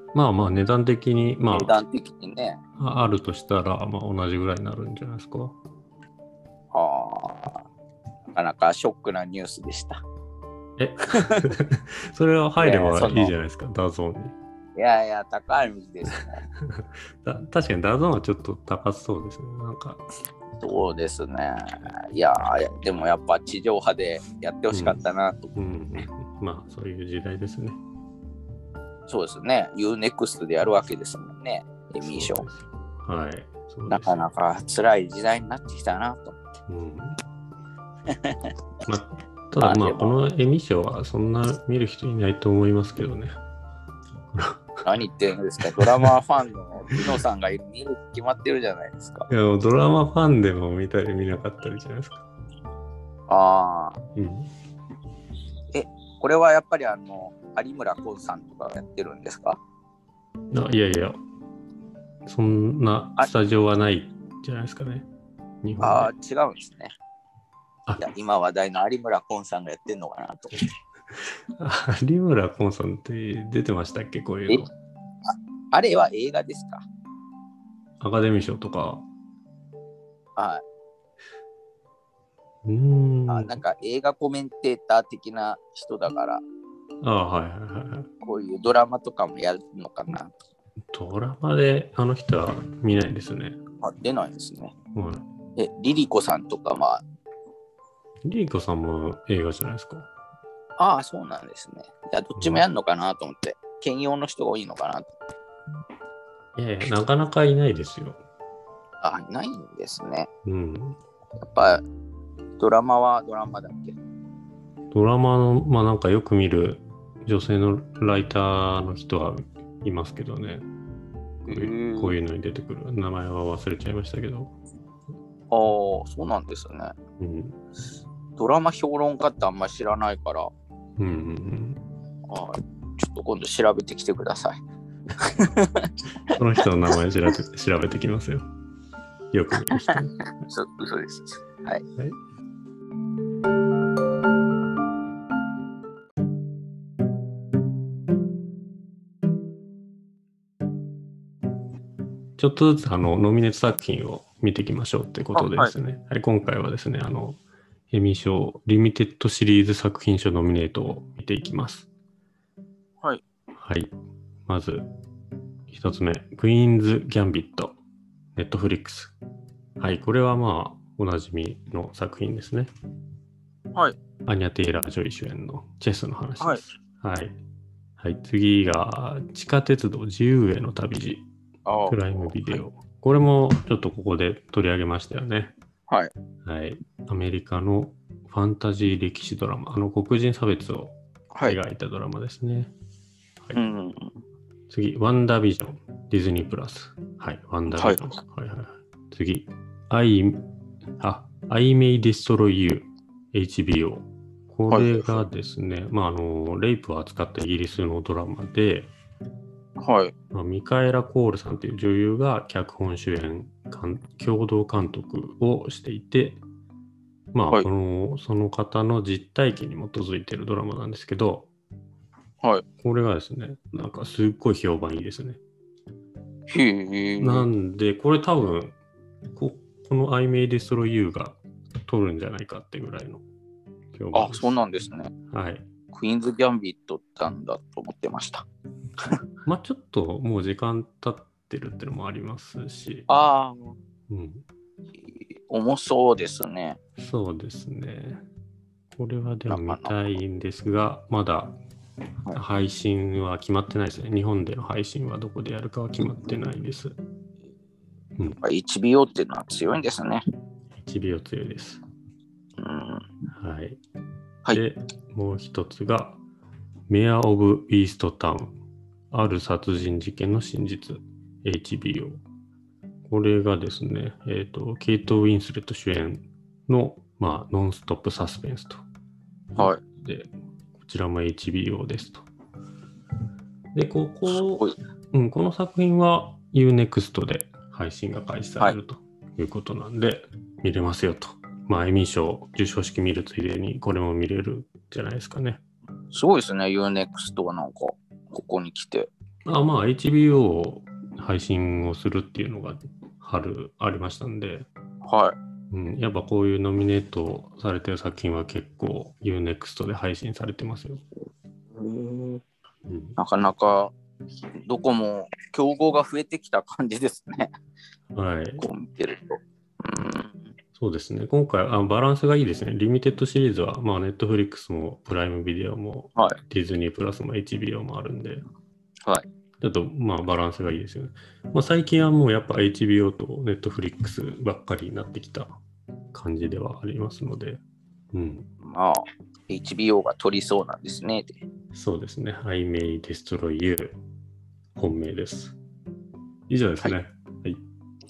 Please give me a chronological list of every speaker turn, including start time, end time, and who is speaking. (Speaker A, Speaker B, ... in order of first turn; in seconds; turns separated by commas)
Speaker A: 0.1-1.8, Speaker B: 1.5-2.6, Speaker A: 2.8-5.6, Speaker B: 6.7-7.6, Speaker B: 8.3-10.0, Speaker A: 10.8-14.3, Speaker B: 12.6-13.3, Speaker B: 14.8-16.4, Speaker A: 16.6-20.0, Speaker B: 20.6-25.5, Speaker A: 24.7-25.0, Speaker A: 25.6-27.8, Speaker B: 29.1-32.4, Speaker A: 32.0-34.2, Speaker B: 33.9-36.4, Speaker A: 36.7-37.2, Speaker B: 38.1-38.4, Speaker A: 38.9-43.4, Speaker B: 39.6-40.2, Speaker A: 44.3-44.6, Speaker B: 44.8-49.3, Speaker A: 45.8-46.1, Speaker A: 49.3-52.2, Speaker B: 53.3-54.0, Speaker A: 54.2-54.5, Speaker B: 55.7-59.6, Speaker A: 60.5-61.2, Speaker A: 62.3-65.1, Speaker A: 65.6-66.1, Speaker B: 65.8-66.9, Speaker B: 68.0-70.6, Speaker A: 71.6-74.7, Speaker B: 75.3-76.8, Speaker A: 78.0-79.0, Speaker B: 80.4-80.6, Speaker A: 82.7-83.6, Speaker B: 83.3-86.4, Speaker A: 87.0-88.1, Speaker B: 88.2-90.3, Speaker A: 90.9-93.6, Speaker B: 93.8-94.7, Speaker A: 95.0-95.2, Speaker B: 95.6-97.0, Speaker A: 98.3-100.1, Speaker B: 100.8-105.1, Speaker A: 102.4-102.6, Speaker A: 106.5-108.2, Speaker B: 109.0-110.3, Speaker A: 110.5-111.0, Speaker B: 111.4-111.8, Speaker B: 112.6-114.0, Speaker A: 114.9-120.7, Speaker B: 121.5-122.2, Speaker A: 121.5-124.5, Speaker B: 125.5-127.0, Speaker A: 127.2-127.6, Speaker B: 128.4-130.5, Speaker A: 131.0-131.8, Speaker B: 132.3-134.6, Speaker B: 135.2-136.3, Speaker A: 136.3-138.4, Speaker A: 139.3-140.1, Speaker B: 139.7-141.8, Speaker A: 152.4-161.9, Speaker B: 155.3-155.7, Speaker A: 163.6-163.9, Speaker A: 164.5-164.9, Speaker A: 165.7-167.8, Speaker A: 168.3-169.2, Speaker A: 169.8-172.7, Speaker A: 174.3-177.4, Speaker A: 178.0-181.3, Speaker B: 181.7-182.6, Speaker A: 181.9-185.5, Speaker A: 186.4-192.7, Speaker B: 191.3-191.6, Speaker B: 193.5-194.2, Speaker A: 194.7-200.4, Speaker B: 197.7-198.1, Speaker A: 201.0-208.9, Speaker B: 204.7-205.2, Speaker B: 209.8-210.1, Speaker A: 210.3-216.4, Speaker A: 217.3-221.5, Speaker A: 222.8-225.4, Speaker B: 226.5-227.5, Speaker A: 227.2-228.8, Speaker A: 229.3-233.2, Speaker A: 233.9-234.6, Speaker B: 234.1-235.1, Speaker A: 235.3-235.7, Speaker B: 235.9-238.4, Speaker A: 239.5-243.1, Speaker B: 243.1-243.8, Speaker A: 244.1-244.4, Speaker B: 245.0-246.8, Speaker A: 247.0-248.2, Speaker A: 249.0-251.6, Speaker B: 249.5-250.2, Speaker A: 252.3-256.9, Speaker B: 258.4-260.2, Speaker A: 260.8-261.8, Speaker B: 262.6-263.1, Speaker A: 263.4-263.8, Speaker A: 264.5-266.2, Speaker A: 266.9-268.6, Speaker A: 269.1-272.2, Speaker A: 273.1-278.8, Speaker A: 279.6-282.3, Speaker B: 279.6-279.8, Speaker A: 283.7-295.6, Speaker B: 284.3-284.7, Speaker B: 296.1-299.1, Speaker A: 299.5-304.7, Speaker B: 305.1-305.4, Speaker A: 305.7-311.0, Speaker B: 311.8-312.4, Speaker A: 312.9-313.2, Speaker B: 313.2-313.9, Speaker B: 314.6-317.5, Speaker A: 318.1-318.7, Speaker B: 318.6-320.5, Speaker A: 320.8-328.4, Speaker A: 329.6-335.6, Speaker A: 336.1-337.6, Speaker A: 338.1-338.5, Speaker B: 338.6-341.4, Speaker A: 341.7-344.0, Speaker A: 344.8-345.6, Speaker A: 346.5-347.6